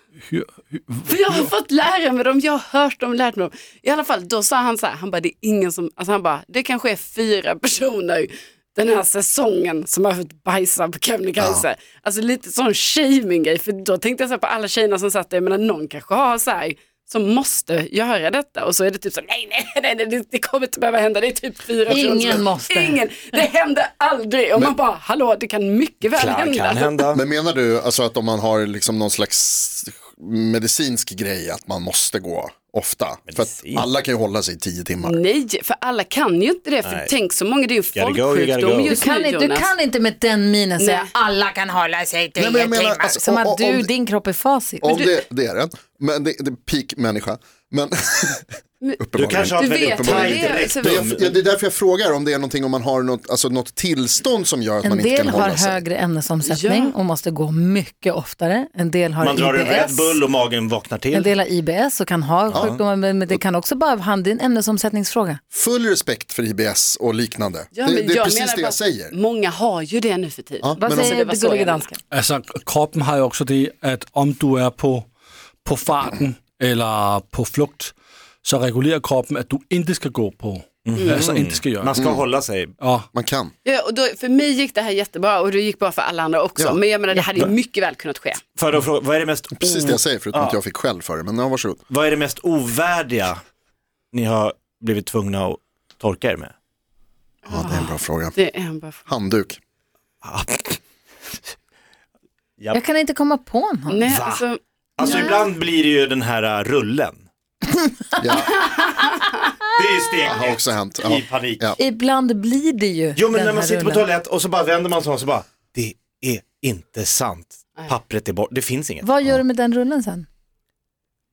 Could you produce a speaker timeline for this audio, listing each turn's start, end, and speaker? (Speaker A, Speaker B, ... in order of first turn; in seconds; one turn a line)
Speaker A: 0.2-1.5
Speaker B: 1.1-27.1
Speaker C: 11.4-11.7
Speaker D: 21.9-23.0
Speaker E: 26.1-27.2
Speaker C: 27.1-35.2
Speaker E: 33.3-33.9
Speaker B: 35.0-39.7
Speaker E: 36.8-37.1
Speaker E: 37.9-39.0
Speaker D: 38.9-44.9
Speaker B: 40.8-41.1
Speaker C: 42.4-43.9
Speaker C: 44.8-55.8
Speaker B: 44.9-45.2
Speaker E: 49.2-51.4
Speaker B: 49.5-51.1
Speaker D: 50.3-50.6
Speaker D: 54.8-60.2
Speaker B: 56.4-56.9
Speaker E: 59.2-61.3
Speaker D: 61.1-65.4
Speaker E: 62.5-62.8
Speaker C: 65.5-69.1
Speaker B: 67.8-71.9
Speaker C: 70.6-71.2
Speaker D: 70.8-72.0
Speaker A: 72.1-75.1
Speaker A: 75.6-82.0
Speaker E: 80.8-82.7
Speaker C: 82.0-82.2
Speaker A: 82.8-83.1
Speaker C: 83.1-83.5
Speaker B: 83.7-88.4
Speaker E: 88.6-90.6
Speaker C: 89.6-91.8
Speaker E: 91.9-93.4
Speaker E: 94.1-96.5
Speaker B: 97.5-99.0
Speaker C: 97.5-98.4
Speaker C: 99.1-99.6
Speaker E: 100.2-100.8
Speaker D: 102.7-104.1
Speaker B: 103.9-105.4
Speaker E: 104.1-104.4
Speaker E: 105.0-107.2
Speaker D: 105.0-105.3
Speaker D: 107.8-108.5
Speaker C: 108.2-108.5
Speaker E: 109.8-111.7
Speaker C: 110.3-111.8
Speaker D: 111.8-114.1
Speaker E: 113.2-119.1
Speaker D: 119.0-120.3